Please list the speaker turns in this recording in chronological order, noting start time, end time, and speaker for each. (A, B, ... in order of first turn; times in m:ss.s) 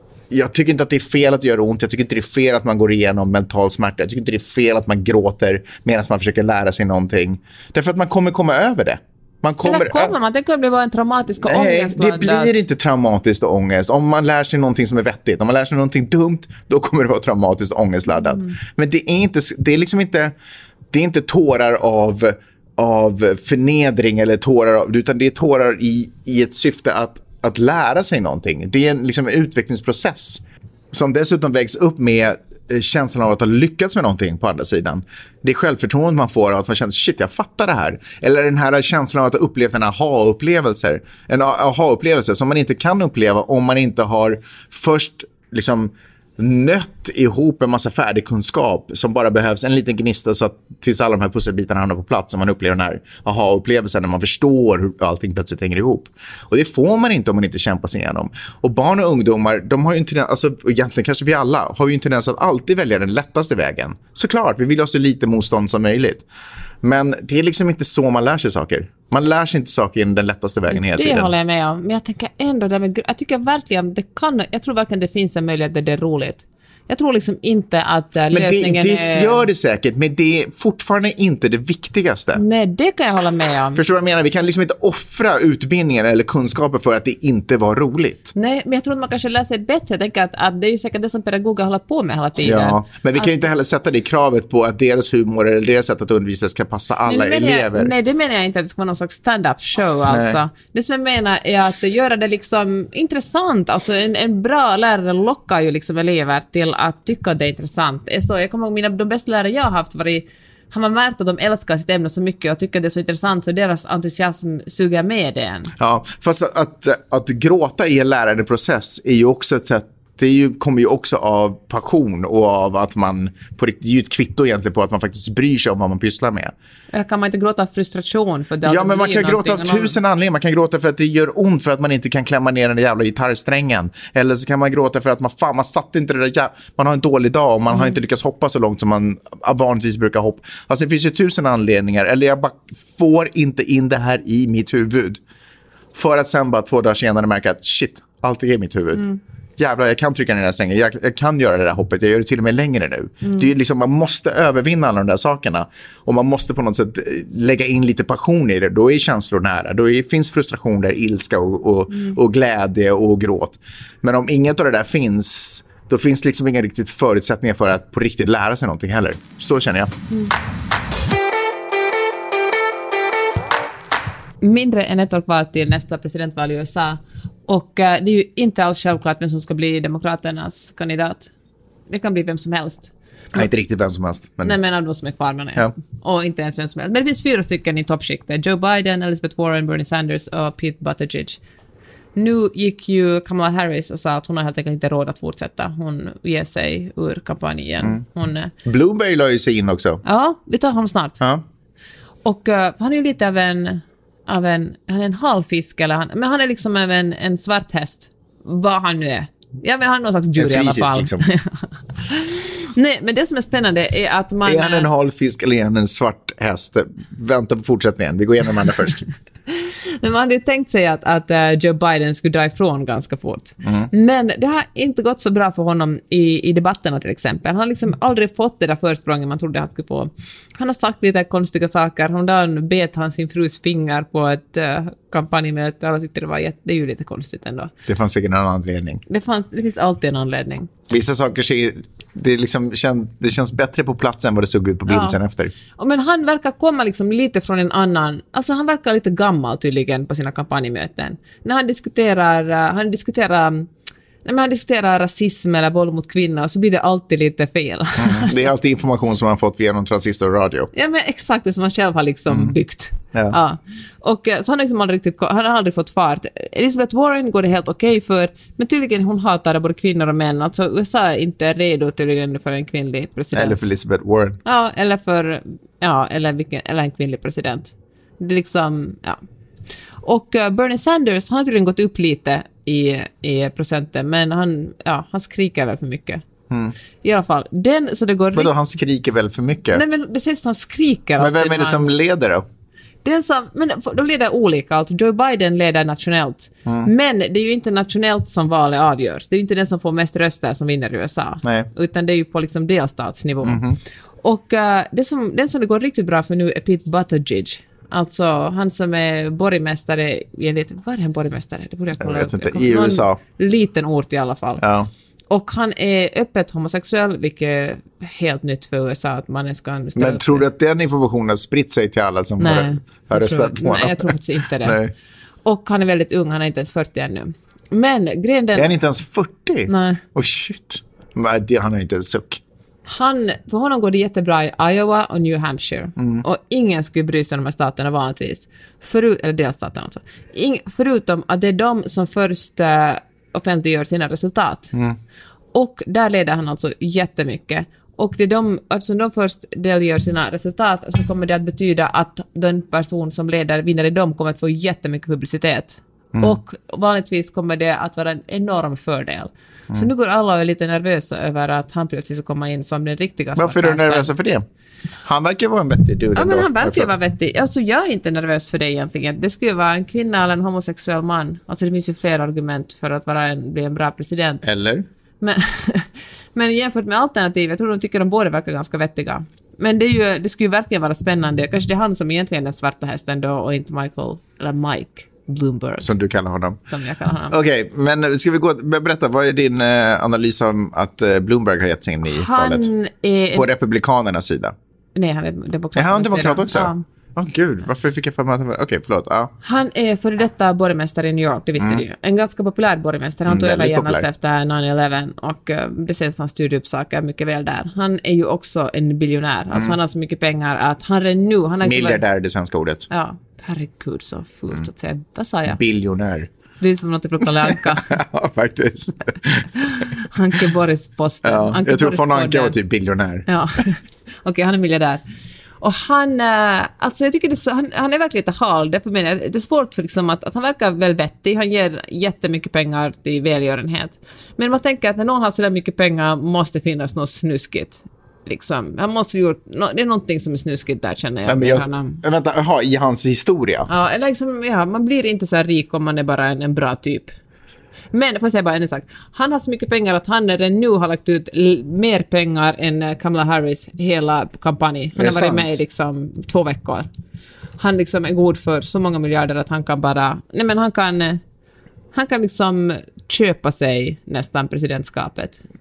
0:00.3-0:10.1 A
0:09.6-0:12.6 B
0:11.4-0:20.3 A
0:18.3-0:18.5 B
0:20.9-1:06.3 A
1:06.8-1:11.3 A
1:10.7-1:19.4 B
1:18.3-1:22.4 A
1:22.3-1:23.8 B
1:23.8-1:28.3 A
1:28.4-1:33.3 B
1:32.4-1:37.9 A
1:37.0-1:55.7 B
1:40.1-1:40.4 A
1:55.8-2:06.5 A
2:06.9-2:09.9 B
2:08.6-2:25.2 A
2:26.0-2:29.1 A
2:29.6-2:49.9 A
2:33.2-2:33.5 B
2:54.4-3:01.3 B
3:01.9-3:03.4 B
3:03.3-3:04.6 A
3:04.4-3:11.4 B
3:12.2-3:18.5 B
3:18.6-3:20.0 A
3:20.0-3:21.2 B
3:22.2-3:34.9 B
3:30.4-3:31.3 A
3:34.5-3:39.1 A
3:39.5-3:57.7 B
3:43.6-3:43.9 A
3:57.9-3:59.0 A
3:59.1-4:00.7 B
4:00.9-4:05.5 A
4:04.9-4:05.2 B
4:05.8-4:13.7 B
4:14.2-4:18.4 B
4:18.0-4:20.7 A
4:20.7-4:33.7 B
4:22.3-4:22.6 A
4:33.3-4:34.4 A
4:34.4-4:39.2 B
4:40.0-4:46.2 B
4:46.5-4:46.8 A
4:47.0-4:48.5 B
4:48.4-4:49.8 A
4:49.7-4:51.9 B
4:51.2-4:52.4 A
4:53.0-5:03.6 B
5:03.4-5:03.8 A
5:04.2-5:14.6 B
5:12.0-5:13.2 A
5:14.6-5:14.9 A
5:15.3-5:20.5 B
5:20.0-5:24.9 A
5:22.4-5:24.8 B
5:25.4-5:28.7 B
5:28.6-5:32.4 A
5:29.7-5:30.0 B
5:32.9-5:44.7 B
5:36.0-5:36.2 A
5:45.5-6:04.1 B
6:03.4-6:04.4 A
6:05.0-6:06.9 A
6:06.2-6:14.4 B
6:14.4-6:14.9 A
6:15.2-6:25.9 B
6:25.8-6:26.6 A
6:26.7-6:27.4 B
6:27.3-6:32.7 A
6:32.1-6:33.5 B
6:33.3-6:34.6 A
6:35.0-6:36.8 B
6:35.8-6:39.3 A
6:39.4-6:52.0 B
6:41.6-6:41.8 A
6:43.3-6:44.1 A
6:51.6-6:52.9 A
6:52.9-6:55.6 B
6:55.6-6:56.3 A
6:56.6-6:58.0 B
6:57.5-6:59.9 A
6:59.6-7:02.6 B
7:01.2-7:03.3 A
7:03.3-7:05.0 B
7:05.6-7:22.0 B
7:21.3-7:23.7 A
7:23.7-7:27.1 B
7:27.9-7:36.9 B
7:35.0-7:35.6 A
7:37.6-7:41.2 B
7:41.9-7:45.4 B